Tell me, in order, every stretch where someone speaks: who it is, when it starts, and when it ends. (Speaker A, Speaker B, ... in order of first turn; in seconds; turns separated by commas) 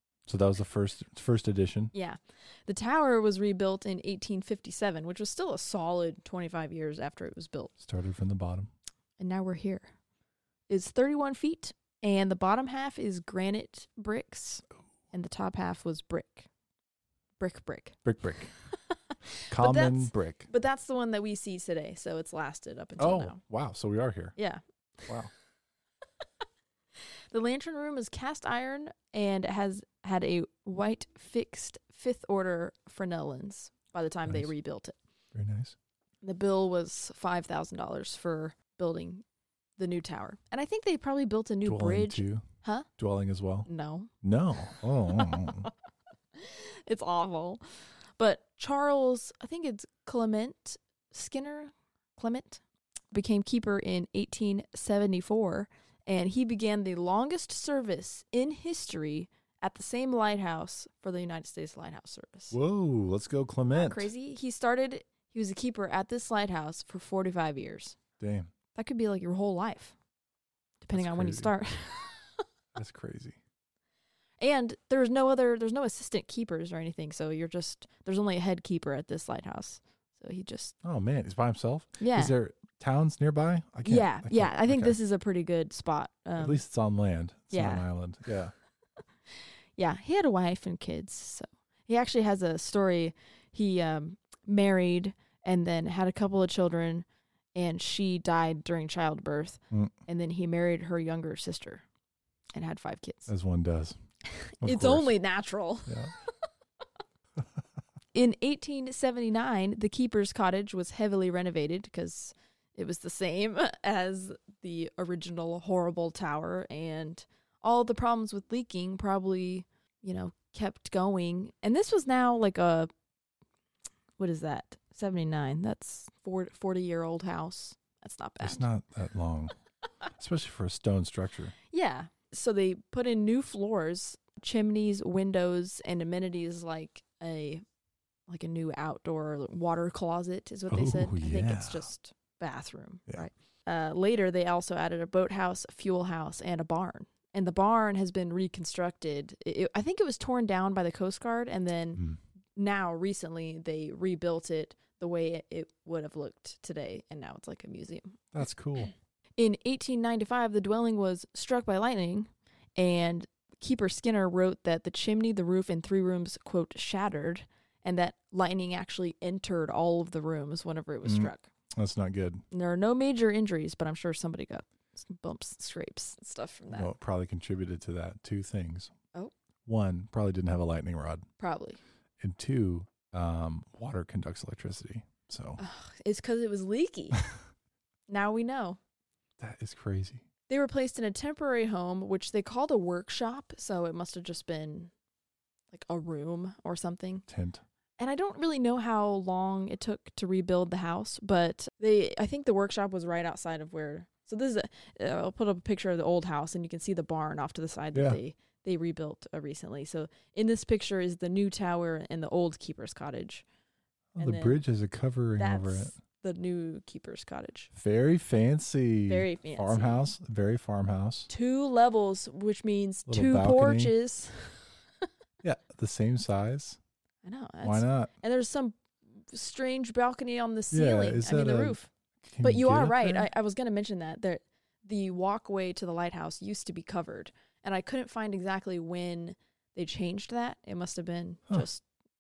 Speaker A: 0.3-1.9, Speaker B: 1.9-7.7, Speaker A: 7.8-8.7, Speaker B: 9.2-9.9, Speaker B: 10.7-16.5, Speaker B: 17.4-18.0, Speaker A: 18.0-18.5, Speaker B: 18.7-23.4, Speaker A: 19.5-20.5, Speaker A: 23.0-24.4, Speaker B: 24.4-25.1, Speaker B: 27.3-35.0, Speaker A: 35.3-35.7, Speaker B: 36.2-39.2, Speaker B: 39.8-42.9, Speaker A: 41.6-42.5, Speaker A: 43.0-43.7, Speaker B: 43.6-44.1, Speaker A: 44.2-45.7, Speaker B: 44.6-45.7, Speaker B: 46.3-62.5, Speaker A: 62.5-64.1, Speaker B: 63.7-68.0, Speaker A: 68.2-68.5, Speaker B: 68.7-69.9, Speaker B: 70.8-72.4, Speaker A: 70.9-71.5, Speaker A: 72.7-73.4, Speaker B: 74.4-80.7, Speaker A: 80.8-85.0, Speaker B: 82.0-82.3, Speaker B: 83.8-86.6, Speaker A: 86.4-88.5, Speaker B: 87.5-87.8, Speaker B: 89.8-101.8, Speaker B: 102.5-103.3, Speaker A: 103.3-104.0, Speaker B: 104.3-106.4, Speaker A: 104.6-105.1, Speaker A: 105.9-106.1, Speaker B: 108.1-122.9, Speaker B: 124.2-128.7, Speaker A: 128.4-129.5, Speaker A: 130.1-131.5, Speaker B: 131.7-137.6, Speaker B: 138.3-152.0, Speaker A: 140.7-141.9, Speaker B: 152.6-158.2, Speaker A: 158.3-158.9, Speaker B: 159.4-171.5, Speaker A: 171.0-172.4, Speaker B: 172.5-176.9, Speaker A: 176.7-178.9, Speaker A: 179.7-181.3, Speaker B: 181.4-181.8, Speaker A: 182.2-185.6, Speaker B: 185.6-187.2, Speaker B: 188.1-188.8, Speaker A: 189.4-190.2, Speaker B: 190.5-194.9, Speaker B: 195.7-197.2, Speaker A: 197.3-197.6, Speaker B: 198.0-213.4, Speaker A: 207.9-208.2, Speaker A: 214.1-215.9, Speaker B: 214.2-214.6, Speaker B: 215.4-217.7, Speaker A: 217.7-221.3, Speaker B: 219.1-220.0, Speaker B: 221.3-224.7, Speaker A: 223.1-223.9, Speaker A: 225.4-226.8, Speaker B: 227.2-231.9, Speaker A: 227.6-228.1, Speaker A: 230.7-233.3, Speaker B: 232.4-241.8